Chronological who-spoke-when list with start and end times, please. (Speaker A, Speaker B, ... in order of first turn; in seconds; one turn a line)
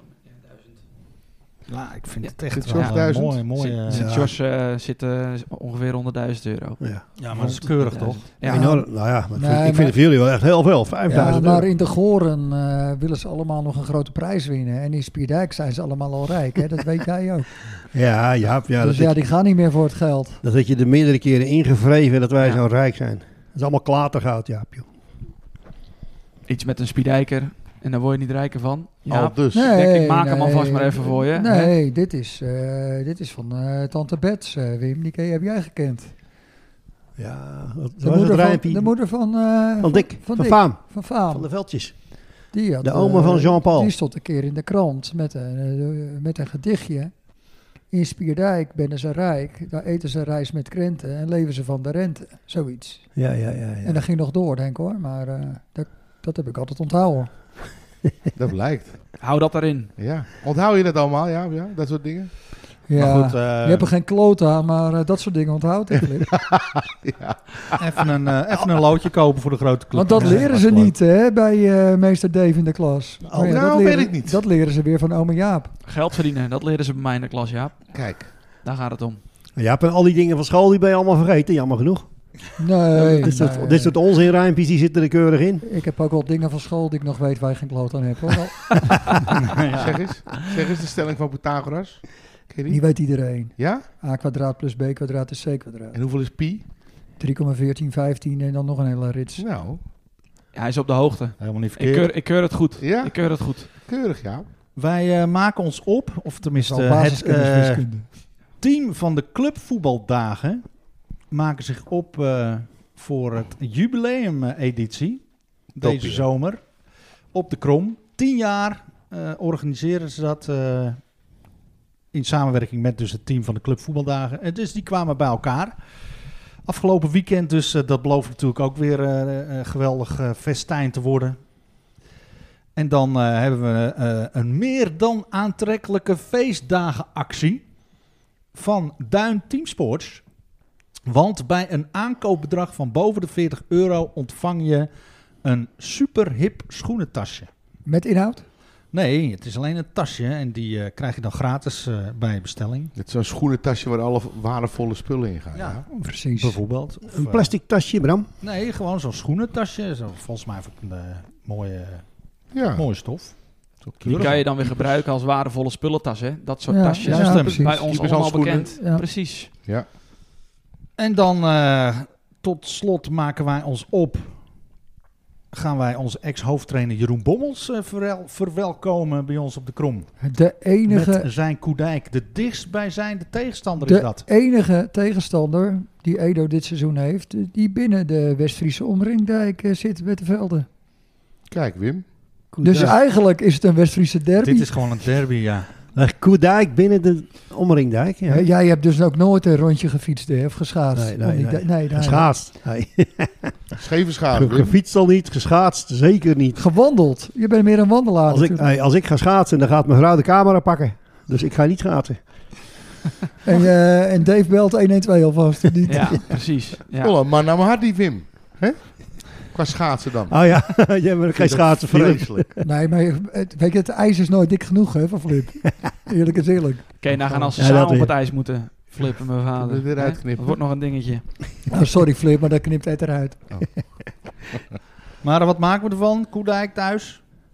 Speaker A: 1.7-4.1
Speaker B: 2.2-6.8
Speaker C: 2.6-3.4
Speaker D: 3.9-4.3
Speaker A: 7.2-8.3
Speaker B: 7.3-8.8
Speaker E: 8.4-10.0
Speaker D: 8.4-11.7
Speaker E: 11.1-17.5
Speaker D: 17.9-19.2
Speaker E: 18.8-20.4
Speaker D: 20.4-24.9
Speaker B: 26.5-31.7
Speaker C: 29.1-29.7
Speaker E: 29.5-36.1
Speaker D: 37.2-39.0
Speaker E: 38.0-41.5
Speaker D: 39.8-42.0
Speaker E: 42.5-47.1
Speaker D: 42.8-43.9
Speaker E: 47.9-53.2
Speaker D: 53.1-54.0
Speaker E: 53.8-57.3
Speaker C: 58.4-59.1
Speaker B: 59.2-59.9
Speaker C: 60.0-62.3
Speaker E: 62.9-66.3
Speaker A: 62.9-63.9
Speaker C: 66.3-68.0
Speaker A: 67.8-70.9
Speaker E: 70.0-75.7
Speaker C: 73.3-74.4
Speaker B: 75.9-77.8
Speaker C: 77.9-78.3
Speaker B: 78.6-79.2
Speaker D: 79.6-82.1
Speaker E: 82.6-84.0
Speaker D: 83.0-85.6
Speaker E: 85.6-89.2
Speaker A: 89.3-90.0
Speaker C: 89.7-92.9
Speaker E: 92.7-96.0
Speaker C: 93.5-93.8
Speaker C: 95.9-96.7
Speaker E: 97.2-99.5
Speaker C: 99.4-99.8
Speaker B: 100.5-103.7
Speaker A: 101.4-102.0
Speaker C: 101.8-102.1
Speaker C: 102.6-104.5
Speaker A: 104.8-108.1
Speaker E: 106.6-108.1
Speaker A: 108.6-110.6
Speaker A: 111.3-116.7
Speaker C: 115.8-116.3
Speaker A: 117.3-121.0
Speaker A: 122.1-125.8
Speaker A: 126.7-131.4
Speaker A: 132.8-137.6
Speaker A: 138.5-140.2
Speaker A: 141.1-144.9
Speaker A: 145.4-147.5
Speaker E: 147.9-148.4
Speaker A: 148.9-152.9
Speaker C: 153.0-155.8
Speaker A: 155.5-157.5
Speaker E: 156.0-156.6
Speaker D: 157.1-158.3
Speaker A: 158.4-162.1
Speaker C: 162.5-162.8
Speaker A: 162.6-164.9
Speaker C: 163.8-164.4
Speaker B: 164.2-169.5
Speaker E: 166.7-167.8
Speaker A: 167.0-167.7
Speaker C: 167.2-168.8
Speaker E: 168.8-169.1
Speaker A: 171.0-174.4
Speaker A: 175.5-180.1
Speaker E: 180.2-181.3
Speaker A: 180.9-184.3
Speaker E: 183.8-190.7
Speaker C: 191.5-192.1
Speaker D: 192.5-193.0
Speaker E: 192.6-194.7
Speaker C: 192.6-193.0
Speaker A: 194.4-195.8
Speaker D: 195.9-198.5
Speaker E: 198.3-202.3
Speaker D: 200.9-203.6
Speaker C: 203.8-204.7
Speaker D: 204.3-206.6
Speaker E: 206.6-208.7
Speaker D: 208.3-212.2
Speaker E: 213.4-216.2
Speaker B: 215.9-217.2
Speaker C: 217.0-222.5
Speaker D: 220.3-222.6
Speaker E: 222.6-227.5
Speaker B: 227.0-231.3
Speaker D: 227.6-228.1
Speaker C: 229.6-230.6
Speaker E: 231.7-233.6
Speaker A: 235.2-237.2